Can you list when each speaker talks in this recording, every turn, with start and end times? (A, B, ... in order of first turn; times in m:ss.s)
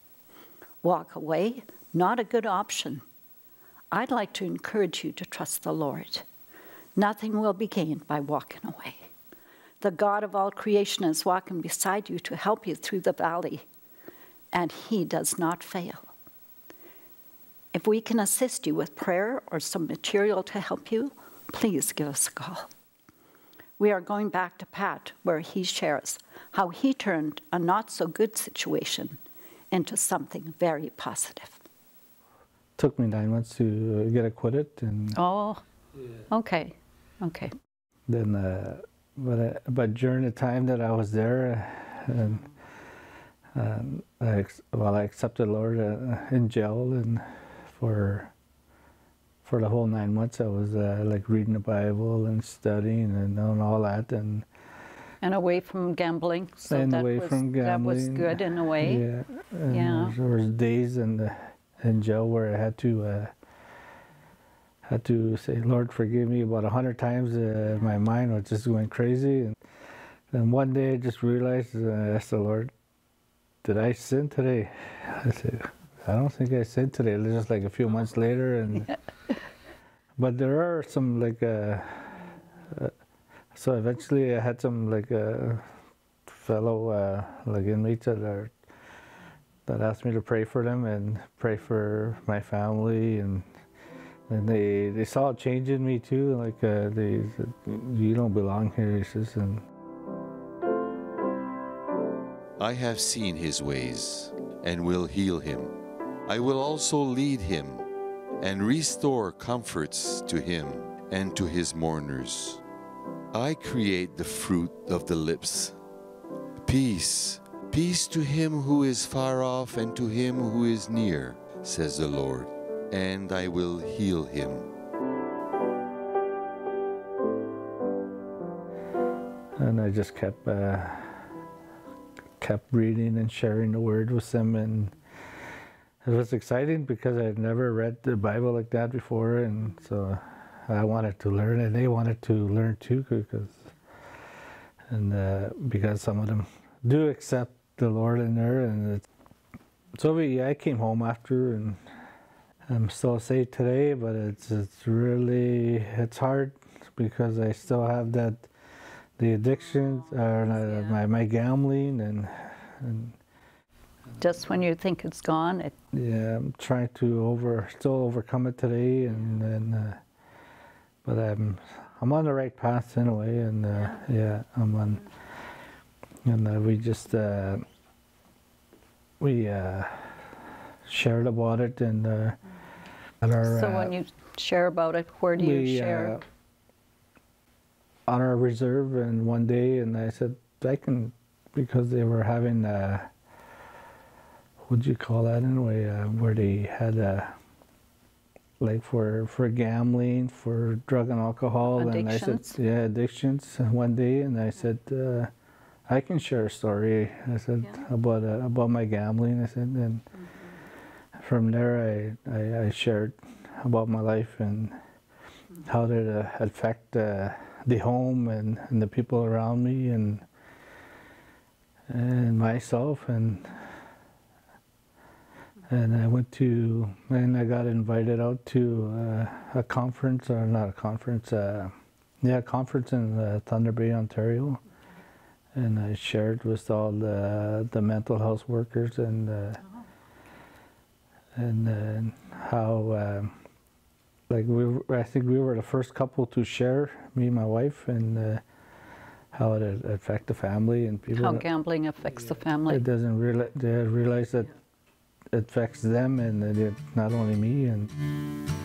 0:00.8-0:03.0 A
0:03.9-0:06.2 A
0:07.0-0:09.1 A
0:09.8-0:13.6 A
0:14.5-0:16.1 A
0:17.7-0:22.7 A
0:23.8-0:29.2 A
0:29.7-0:31.6 A
0:32.8-0:35.2 B
0:35.1-0:35.6 A
0:36.3-0:37.5 A
0:38.1-0:42.4 B
0:43.5-0:48.3 B
0:49.4-0:54.4 B
0:55.2-0:59.0 A
0:56.6-1:03.3 B
0:59.7-1:00.2 A
1:04.8-1:09.6 B
1:10.3-1:12.7 B
1:13.6-1:18.9 B
1:20.2-1:22.9 B
1:23.5-1:25.6 B
1:26.3-1:28.5 B
1:29.7-1:33.5 B
1:34.3-1:39.6 B
1:42.6-1:45.7 C
1:46.2-1:47.8 C
1:48.4-1:52.6 C
1:53.3-1:55.7 C
1:56.6-2:04.7 C
2:09.6-2:11.2 B
2:12.4-2:14.9 B
2:16.0-2:23.7 B
2:24.9-2:29.0 B
2:29.9-2:31.8 B
2:32.7-2:38.5 B
2:39.2-2:43.2 B
2:44.2-2:45.7 A
2:45.9-2:50.0 B
2:51.0-2:55.0 B
2:56.2-2:57.6 B
2:59.2-3:00.2 B
3:00.9-3:02.4 B
3:03.2-3:03.9 B
3:03.4-3:06.2 A
3:05.4-3:06.2 B
3:08.1-3:13.1 B
3:14.7-3:17.3 B
3:18.6-3:25.3 B
3:21.7-3:22.6 A
3:25.9-3:30.0 B
3:31.2-3:34.8 B
3:35.6-3:40.2 B
3:41.9-3:43.6 B
3:45.7-3:54.6 B
3:55.5-3:59.6 B
4:01.4-4:03.3 B
4:04.3-4:08.4 B
4:09.3-4:11.4 B
4:11.1-4:12.8 A
4:12.7-4:14.5 B
4:15.3-4:17.9 B